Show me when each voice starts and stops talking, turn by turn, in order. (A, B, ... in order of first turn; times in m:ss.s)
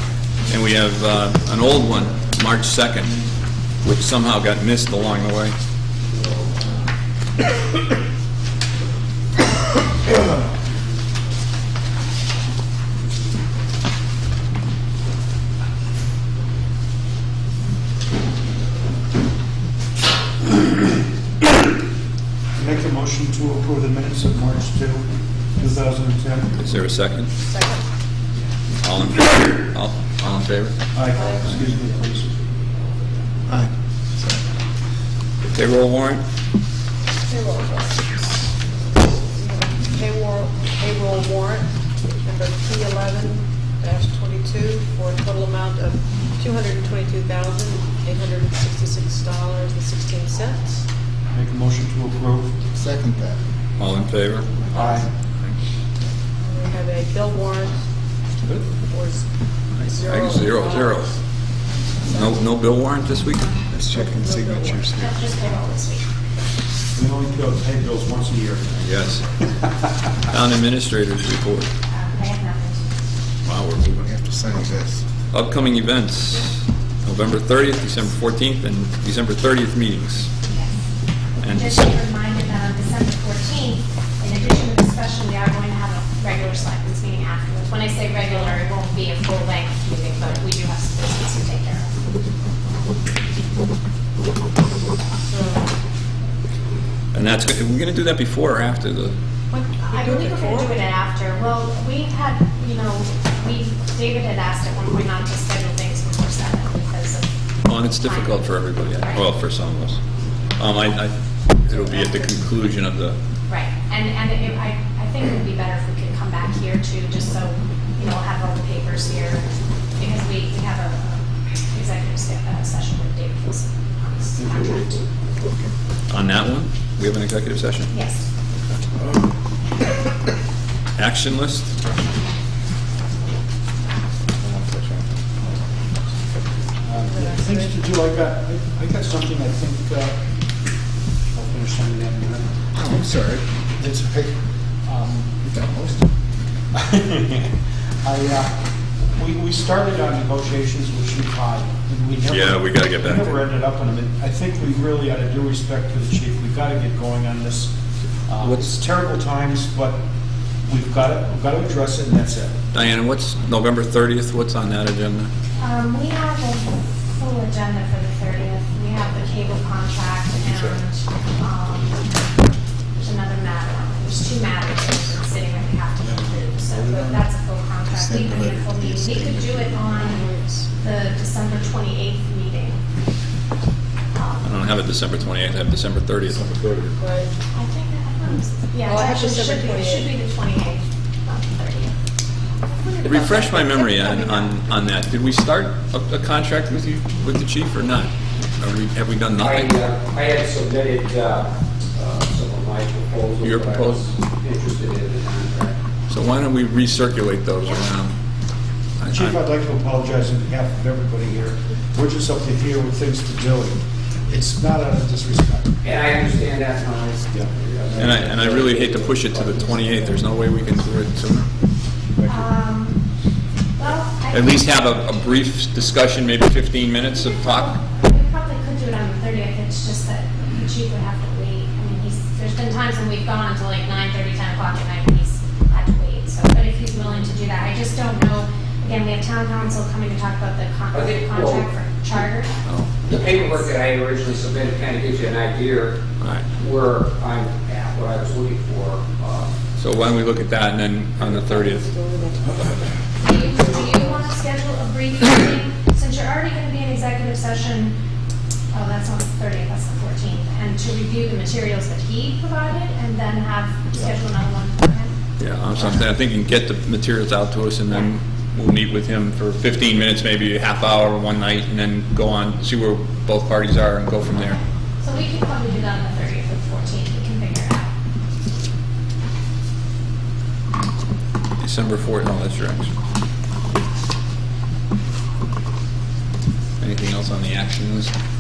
0:00.5-0:03.2 A
0:03.8-0:05.6 A
0:22.6-0:26.6 B
0:26.6-0:27.3 A
0:27.4-0:27.8 C
0:28.8-0:30.9 A
0:30.9-0:32.4 B
0:31.2-0:31.6 C
0:33.5-0:34.4 D
0:35.5-0:36.2 A
0:37.2-0:38.3 C
0:39.0-0:50.8 C
0:51.3-0:52.6 B
0:52.7-0:53.4 D
0:53.8-0:54.6 A
0:54.7-0:55.0 C
0:54.7-0:55.1 B
0:56.4-0:57.8 C
0:58.5-0:59.3 C
0:59.8-1:01.2 A
0:59.8-1:01.0 C
1:02.0-1:03.6 A
1:02.0-1:02.4 C
1:03.7-1:05.3 D
1:03.8-1:05.0 C
1:04.9-1:06.1 E
1:07.0-1:08.7 B
1:08.7-1:09.3 A
1:10.3-1:11.7 A
1:11.9-1:12.9 E
1:13.4-1:14.0 A
1:13.8-1:15.0 D
1:15.3-1:20.3 A
1:20.5-1:20.7 E
1:21.4-1:21.9 A
1:21.4-1:31.9 E
1:35.2-1:35.7 C
1:37.1-1:39.2 A
1:39.5-1:40.8 C
1:39.9-1:47.3 E
1:47.6-1:50.0 A
1:47.8-1:49.2 E
1:50.6-1:53.2 A
1:53.5-2:05.0 E
2:06.1-2:07.9 A
2:07.9-2:08.3 E
2:11.0-2:11.8 A
2:14.4-2:15.0 A
2:16.8-2:20.2 B
2:17.1-2:17.8 C
2:21.3-2:22.5 B
2:22.8-2:23.5 D
2:23.8-2:24.4 B
2:24.9-2:25.5 B
2:25.5-2:26.1 D
2:26.7-2:28.6 B
2:29.2-2:37.7 B
2:32.3-2:33.4 A
2:38.3-2:40.0 B
2:38.4-2:38.7 A
2:40.7-2:42.6 B
2:42.7-2:45.3 A
2:45.6-2:52.2 E
2:53.0-3:02.8 E
2:56.6-2:57.3 D
2:57.9-3:00.0 D
3:00.1-3:00.7 C
3:04.1-3:04.6 E
3:04.4-3:06.8 A
3:06.9-3:07.4 C
3:07.5-3:11.9 E
3:08.8-3:10.1 C
3:12.7-3:14.5 C
3:13.0-3:19.8 A
3:19.4-3:25.8 F
3:23.4-3:24.1 A
3:26.1-3:28.2 A
3:29.0-3:29.4 A
3:29.1-3:35.8 B
3:35.8-3:40.2 F
3:37.3-3:38.3 B
3:38.0-3:41.5 A
3:42.2-3:42.5 B
3:42.3-3:43.0 E
3:43.8-3:45.0 E
3:44.3-3:47.8 A
3:47.1-4:02.6 E
4:00.9-4:01.7 F
4:02.6-4:03.0 A
4:03.1-4:06.0 F
4:03.1-4:03.6 E
4:06.2-4:06.5 A
4:06.6-4:09.6 F
4:09.8-4:12.0 A
4:11.3-4:14.3 C
4:13.2-4:18.0 E
4:18.7-4:25.1 E
4:25.4-4:34.6 A
4:35.0-4:37.9 E
4:41.6-4:42.9 A
4:46.8-4:48.1 A